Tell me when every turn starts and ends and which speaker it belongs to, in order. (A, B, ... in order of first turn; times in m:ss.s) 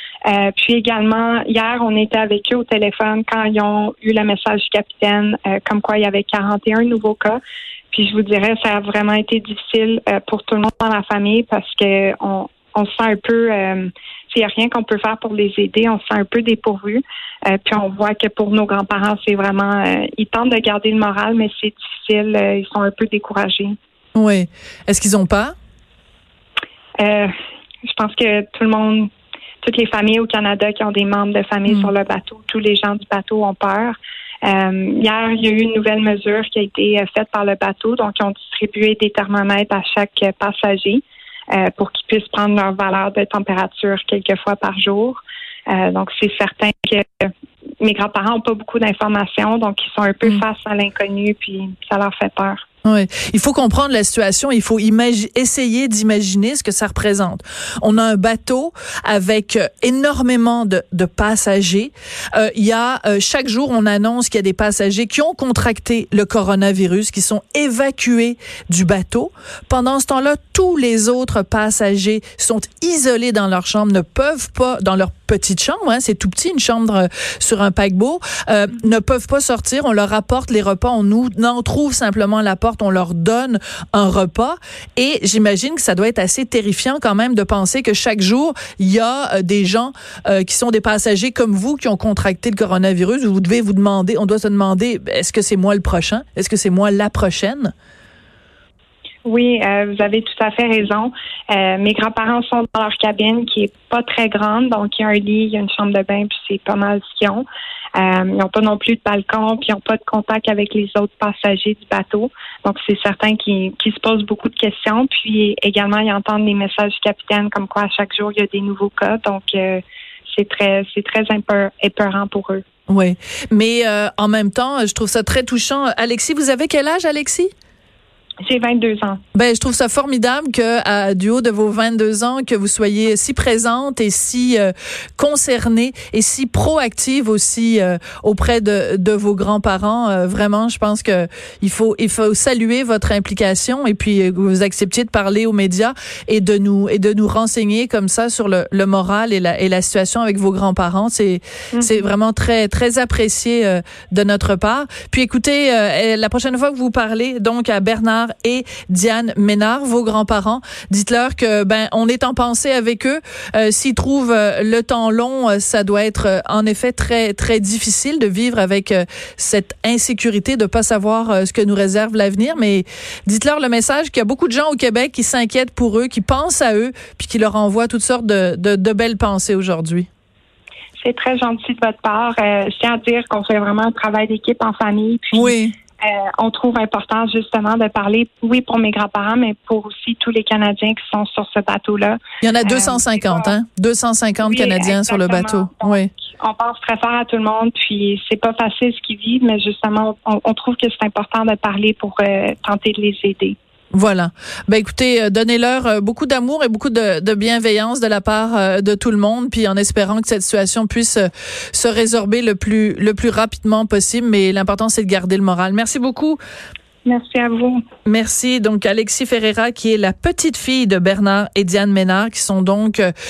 0:00.2-0:07.4 A
0:07.9-0:23.8 A
0:24.1-0:25.5 B
0:27.0-0:27.3 A
0:27.8-0:29.1 A
0:29.6-0:52.6 A
0:52.8-1:37.7 B
1:39.2-1:47.4 A
1:48.0-1:59.8 A
2:00.3-2:02.6 A
2:02.9-2:07.5 B
2:08.4-2:09.2 A
2:09.3-3:00.1 B
2:31.7-2:32.0 A
3:01.0-3:13.5 A
3:05.3-3:05.7 B
3:12.4-3:16.1 B
3:14.4-3:23.5 A
3:23.9-3:36.4 B
3:37.0-3:37.8 A
3:38.0-3:43.1 B